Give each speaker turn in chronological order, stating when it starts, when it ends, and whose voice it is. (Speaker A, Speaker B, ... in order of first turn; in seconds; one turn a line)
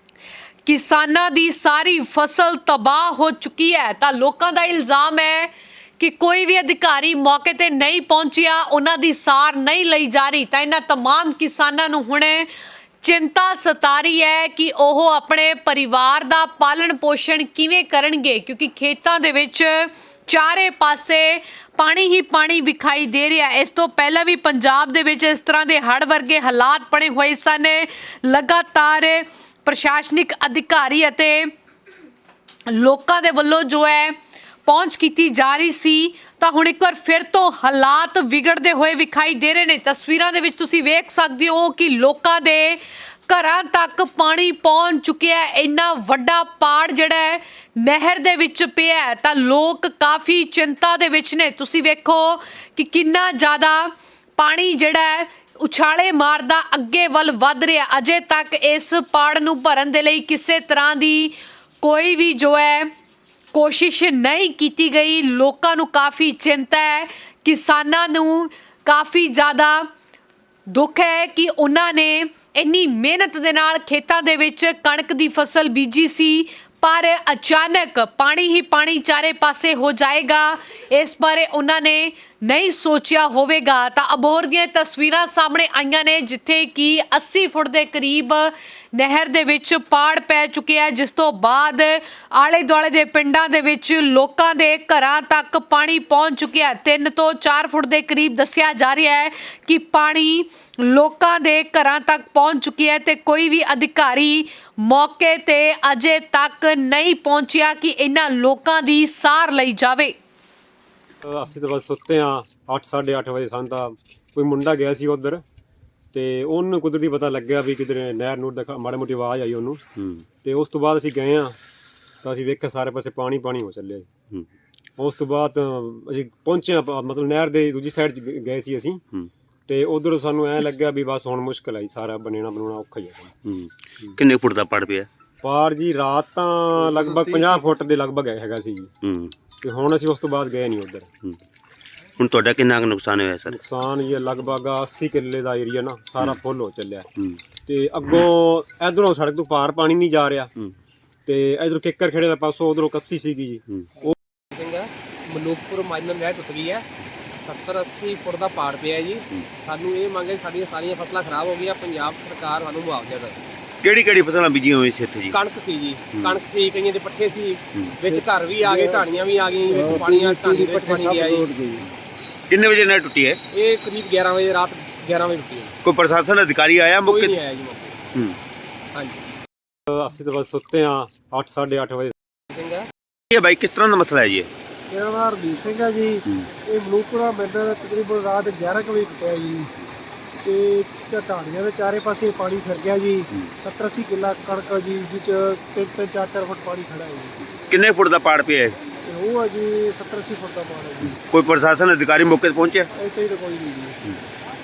Speaker A: 0.7-12.5
Speaker A: 13.0-31.5
Speaker A: 32.7-34.1
Speaker A: 34.7-62.9
Speaker A: 63.5-69.9
Speaker A: 70.7-110.2
Speaker B: 111.2-115.4
Speaker B: 116.1-119.8
Speaker B: 120.4-121.6
Speaker B: 122.2-124.1
Speaker B: 125.0-129.0
Speaker B: 129.7-133.3
Speaker C: 133.4-135.1
Speaker B: 135.4-138.9
Speaker D: 136.9-137.5
Speaker C: 139.0-139.4
Speaker B: 139.6-141.1
Speaker C: 142.2-143.6
Speaker B: 143.5-150.5
Speaker B: 151.3-154.1
Speaker D: 154.5-156.9
Speaker D: 157.4-163.4
Speaker C: 163.8-165.4
Speaker D: 165.3-171.5
Speaker C: 166.1-166.4
Speaker C: 167.8-168.0
Speaker E: 170.6-171.8
Speaker C: 172.5-173.4
Speaker D: 173.5-175.7
Speaker C: 175.8-177.4
Speaker D: 177.1-178.0
Speaker D: 178.9-179.2
Speaker B: 179.9-182.2
Speaker D: 182.5-182.9
Speaker C: 183.3-184.5
Speaker E: 184.9-189.7
Speaker E: 190.4-197.4
Speaker C: 197.4-198.8
Speaker E: 199.1-201.2
Speaker C: 201.1-202.9
Speaker E: 202.9-204.0